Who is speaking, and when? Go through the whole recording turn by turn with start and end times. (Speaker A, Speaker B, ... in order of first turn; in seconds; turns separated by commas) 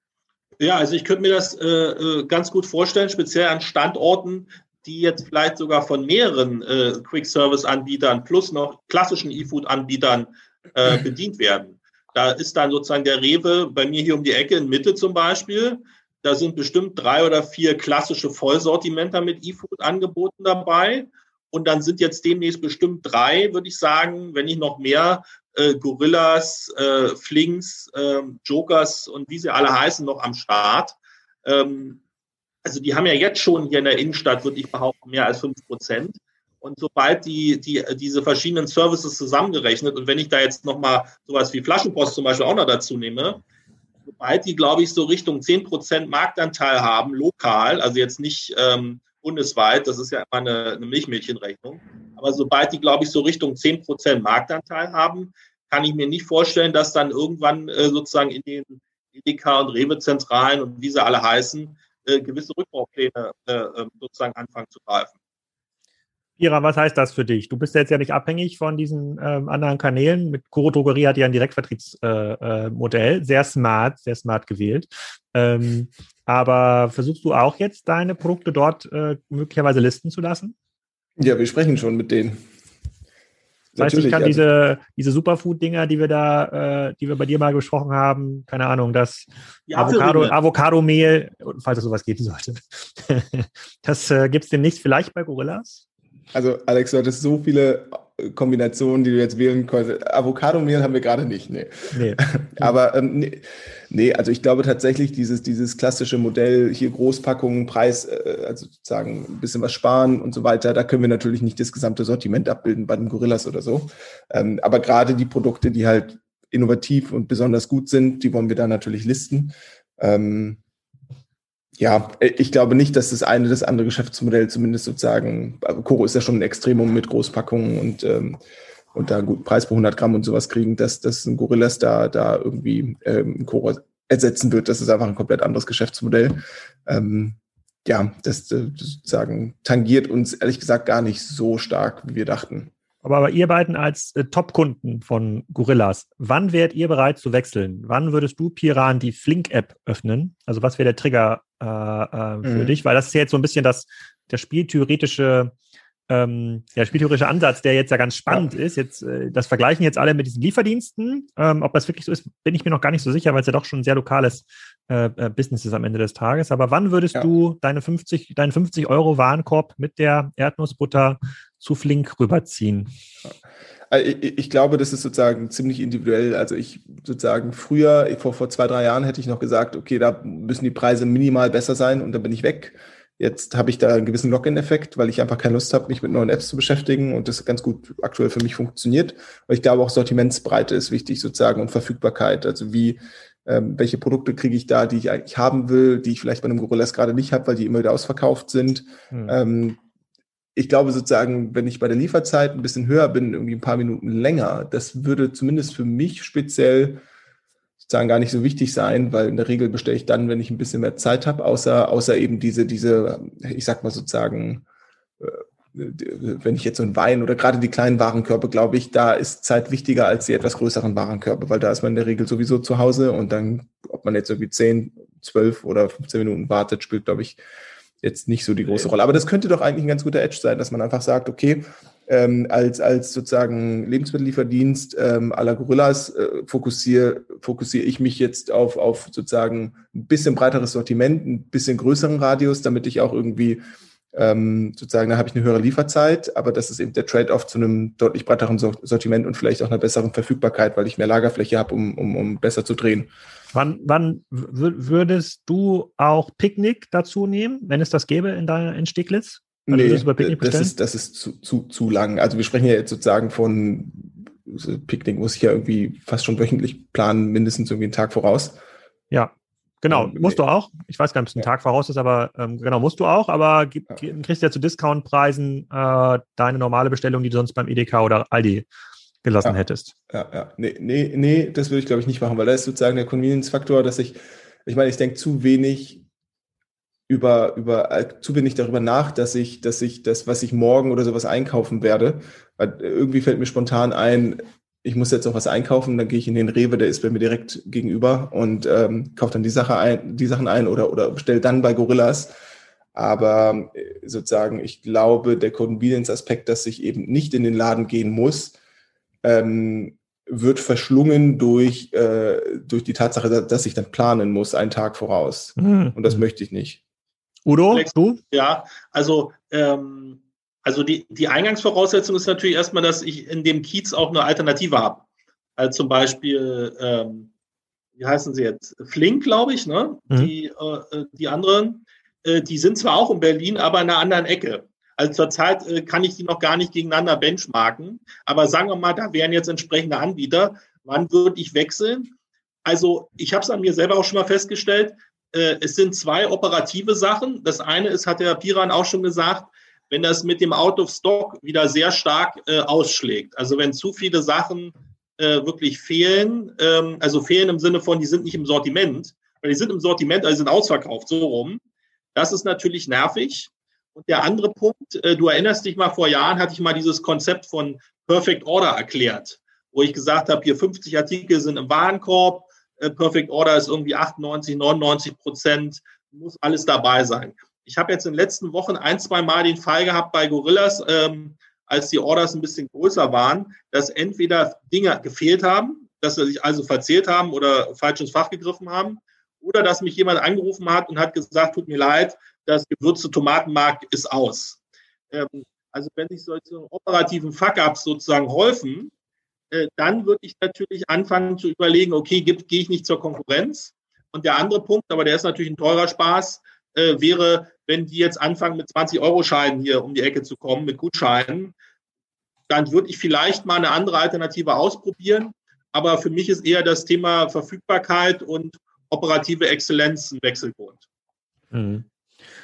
Speaker A: 0.6-32.0, Speaker A: 32.6-43.4, Speaker A: 44.0-65.2, Speaker B: 66.4-80.5, Speaker C: 81.2-82.4, Speaker C: 83.7-84.4, Speaker B: 83.8-95.8, Speaker A: 89.7-90.3, Speaker C: 96.3-120.6, Speaker B: 101.9-102.7, Speaker C: 121.8-128.4, Speaker C: 128.9-142.7, Speaker B: 143.0-155.5, Speaker C: 152.4-152.8, Speaker B: 156.1-172.9, Speaker C: 173.9-199.8, Speaker C: 200.6-207.0, Speaker C: 207.8-214.6, Speaker C: 215.2-227.4, Speaker C: 228.0-243.6, Speaker C: 244.1-253.1, Speaker B: 253.5-260.7, Speaker C: 259.7-268.6, Speaker B: 269.1-278.6, Speaker C: 269.9-270.4, Speaker B: 279.2-279.9, Speaker C: 280.1-286.0, Speaker C: 287.1-302.3, Speaker C: 302.9-308.6, Speaker C: 309.2-316.8, Speaker B: 315.6-316.2, Speaker B: 317.4-318.2, Speaker A: 317.7-325.0, Speaker A: 325.6-327.3, Speaker A: 328.0-342.1, Speaker A: 342.6-361.6, Speaker A: 362.1-394.6, Speaker A: 395.1-398.9, Speaker A: 399.5-411.5, Speaker A: 412.5-420.8, Speaker B: 421.5-421.9